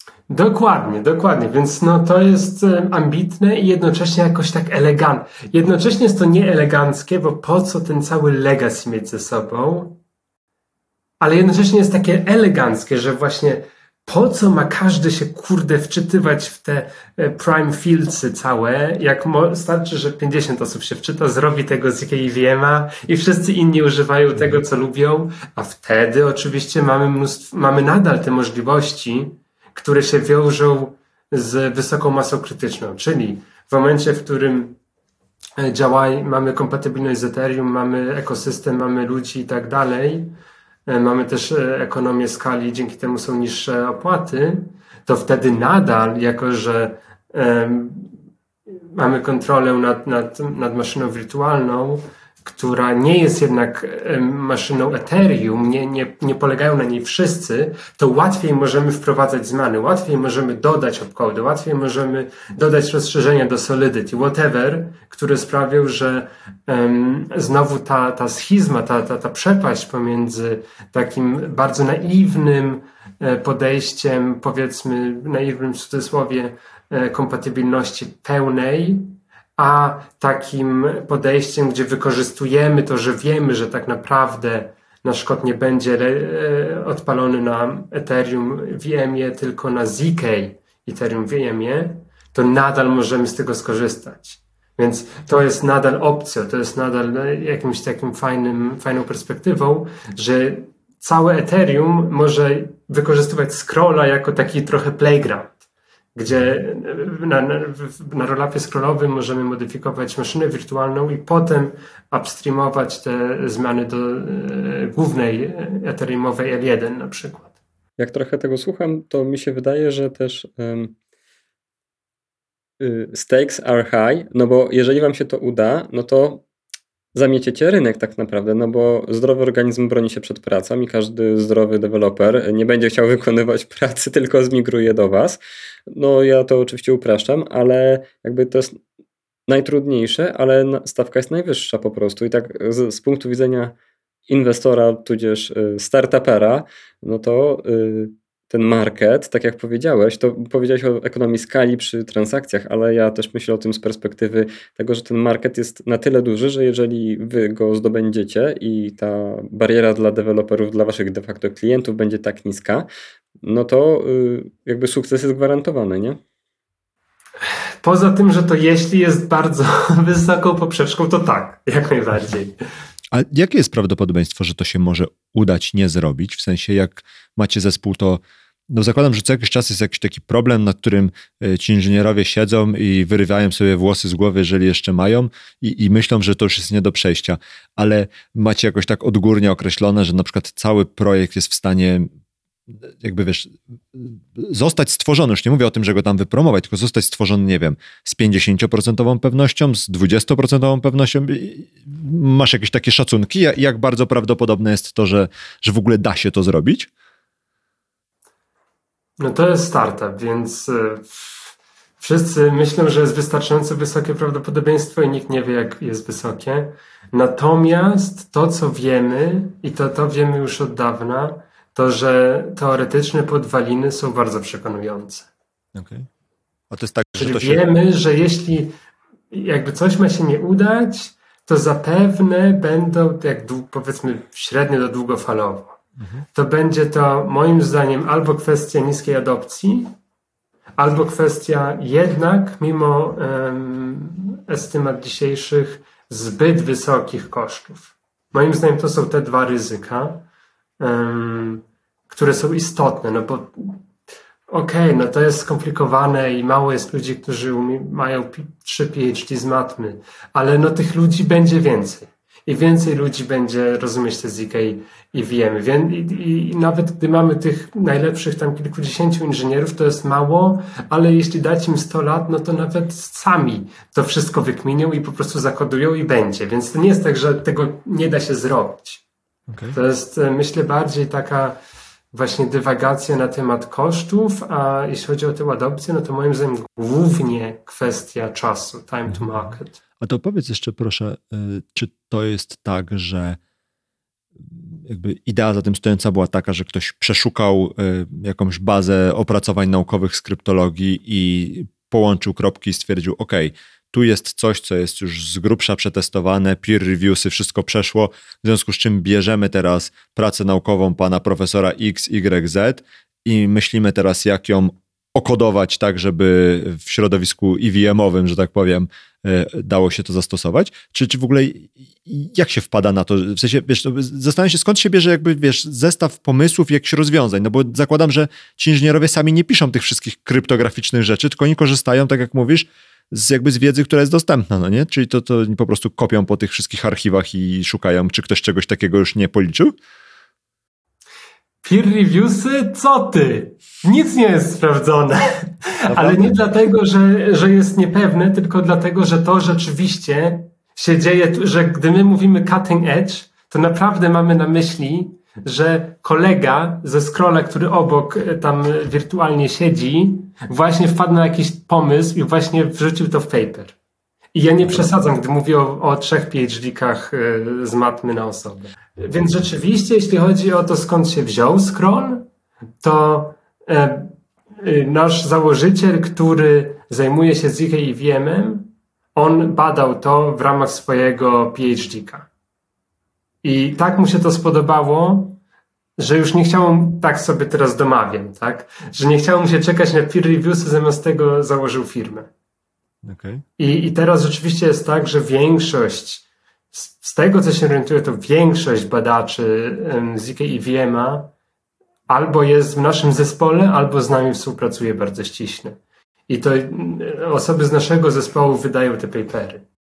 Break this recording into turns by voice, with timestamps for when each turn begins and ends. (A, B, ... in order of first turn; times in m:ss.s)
0:00.3-0:10.0 A
0:11.2-0:34.8 A
0:35.6-0:40.3 A
0:40.9-0:48.1 A
0:48.9-1:45.6 A
1:46.2-1:57.5 A
1:58.0-2:01.0 B
2:02.8-2:06.4 B
2:07.2-2:18.8 B
2:19.5-2:23.8 B
2:24.3-2:42.9 B
2:43.4-2:46.2 B
2:47.8-2:52.6 A
2:53.1-3:12.1 C
3:12.8-3:26.9 C
3:29.2-3:45.3 A
3:45.7-3:46.1 C
3:46.7-3:47.7 C
3:47.2-3:48.7 A
3:49.3-3:55.8 A
3:56.0-3:56.2 C
3:56.3-3:59.9 A
4:00.8-4:10.2 A
4:10.8-4:13.8 A
4:14.5-4:39.0 A
4:39.5-4:39.8 C
4:39.7-4:41.6 A
4:42.1-4:49.8 A
4:49.1-4:49.5 C
4:50.0-4:53.4 C
4:54.5-5:39.8 C
5:41.6-6:03.8 A
5:45.9-5:46.3 C
6:04.3-6:12.3 A
6:12.8-6:22.3 A
6:23.4-6:25.4 A
6:26.0-6:32.3 A
6:33.0-6:33.4 C
6:33.6-6:41.3 A
6:42.1-6:49.7 A